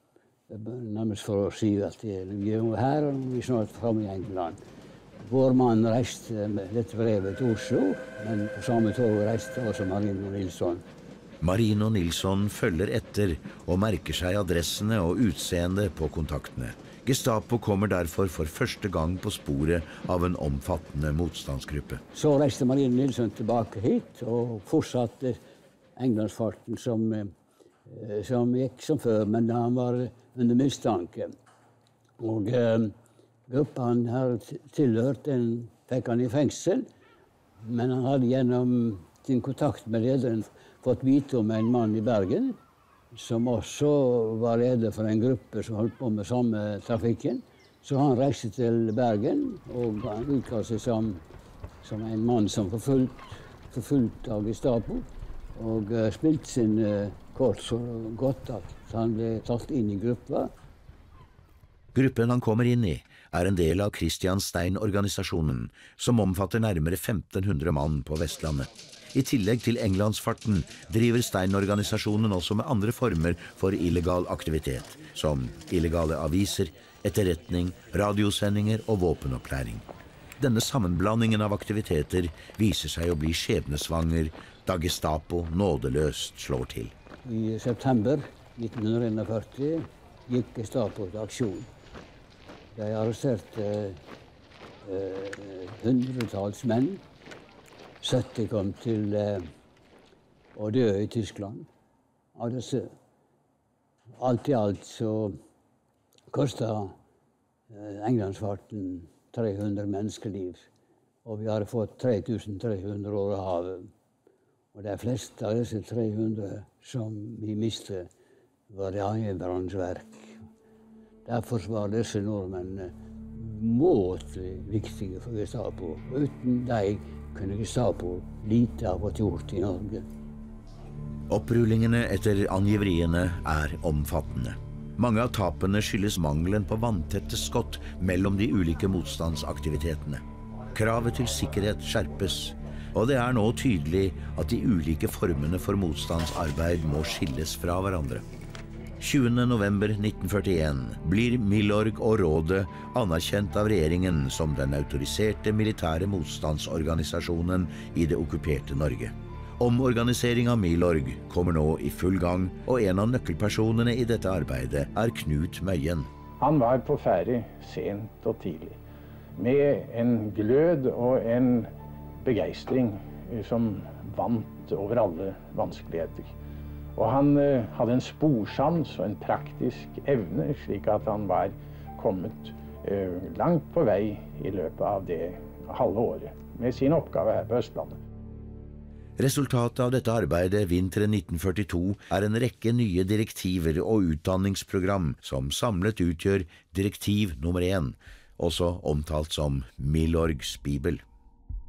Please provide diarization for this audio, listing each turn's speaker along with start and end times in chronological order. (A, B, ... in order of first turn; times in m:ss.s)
0:00.5-0:04.6 A
0:05.2-0:10.8 A
0:11.4-0:22.0 B
0:22.1-0:25.4 A
0:26.0-0:27.3 A
0:27.9-0:31.3 A
0:32.2-0:32.9 A
0:33.5-0:36.9 A
0:37.6-0:42.6 A
0:43.1-0:51.2 A
0:51.8-1:00.5 A
1:01.9-1:19.9 B
1:20.4-1:26.9 B
1:27.2-1:31.7 A
1:32.7-1:34.0 A
1:34.8-1:37.0 A
1:38.0-1:39.5 A
1:40.6-1:41.7 A
1:42.4-1:42.9 A
1:44.2-1:45.4 A
1:46.3-1:47.0 A
1:47.7-1:50.7 A
1:51.2-1:53.9 A
1:54.7-1:58.1 A
1:58.7-2:00.4 A
2:01.3-2:10.0 A
2:11.3-2:28.2 B
2:29.0-2:46.1 B
2:46.4-2:48.8 C
2:49.4-2:56.4 C
2:57.0-3:08.0 C
3:09.2-3:21.0 B